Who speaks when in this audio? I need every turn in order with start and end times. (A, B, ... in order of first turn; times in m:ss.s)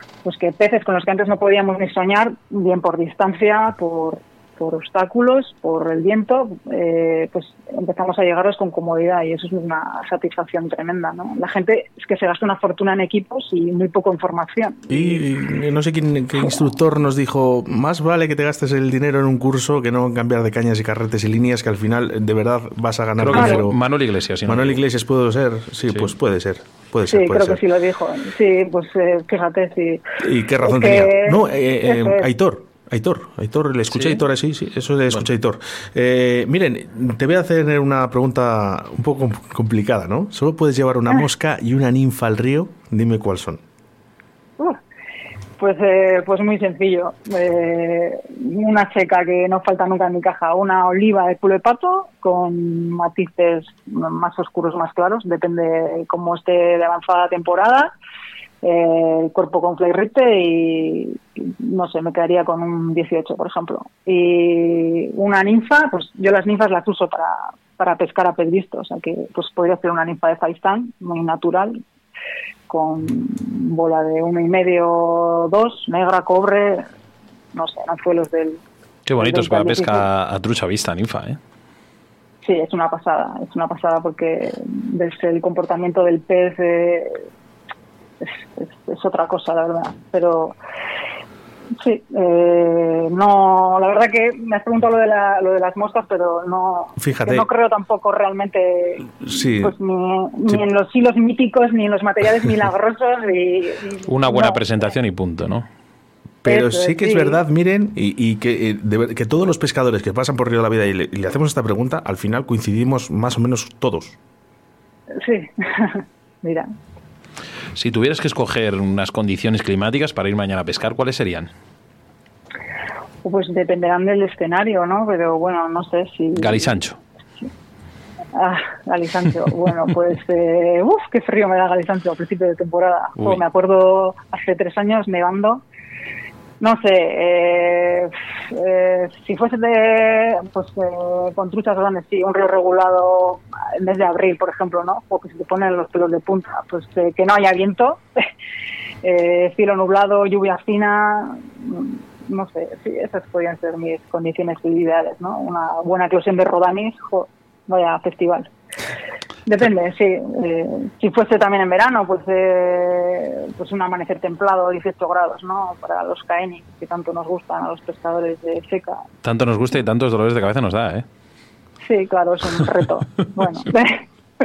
0:00.2-0:15.2 A
0:14.9-0:23.8 B
0:23.2-0:24.8 C
0:23.3-0:23.6 A
0:24.5-0:27.6 B
0:27.1-0:30.0 A
0:30.2-0:43.6 B
0:30.6-0:32.3 A
0:33.9-0:34.2 C
0:45.6-0:57.9 A
0:58.6-1:11.8 A
1:12.7-1:16.8 A
1:17.5-1:18.6 A
1:19.0-1:21.4 C
1:19.2-1:20.0 A
1:22.4-1:27.2 A
1:28.2-1:30.6 A
1:31.8-1:44.6 A
1:37.0-1:37.4 B
1:39.2-1:39.7 B
1:44.1-1:45.6 C
1:46.4-1:54.2 B
1:46.5-1:47.4 A
1:55.2-1:56.7 A
1:57.8-2:01.5 C
2:03.2-2:06.7 A
2:06.4-2:07.0 C
2:08.3-2:15.6 A
2:16.6-2:28.0 A
2:29.0-2:38.5 A
2:39.5-2:49.0 A
2:49.2-2:51.0 C
2:51.8-2:54.0 A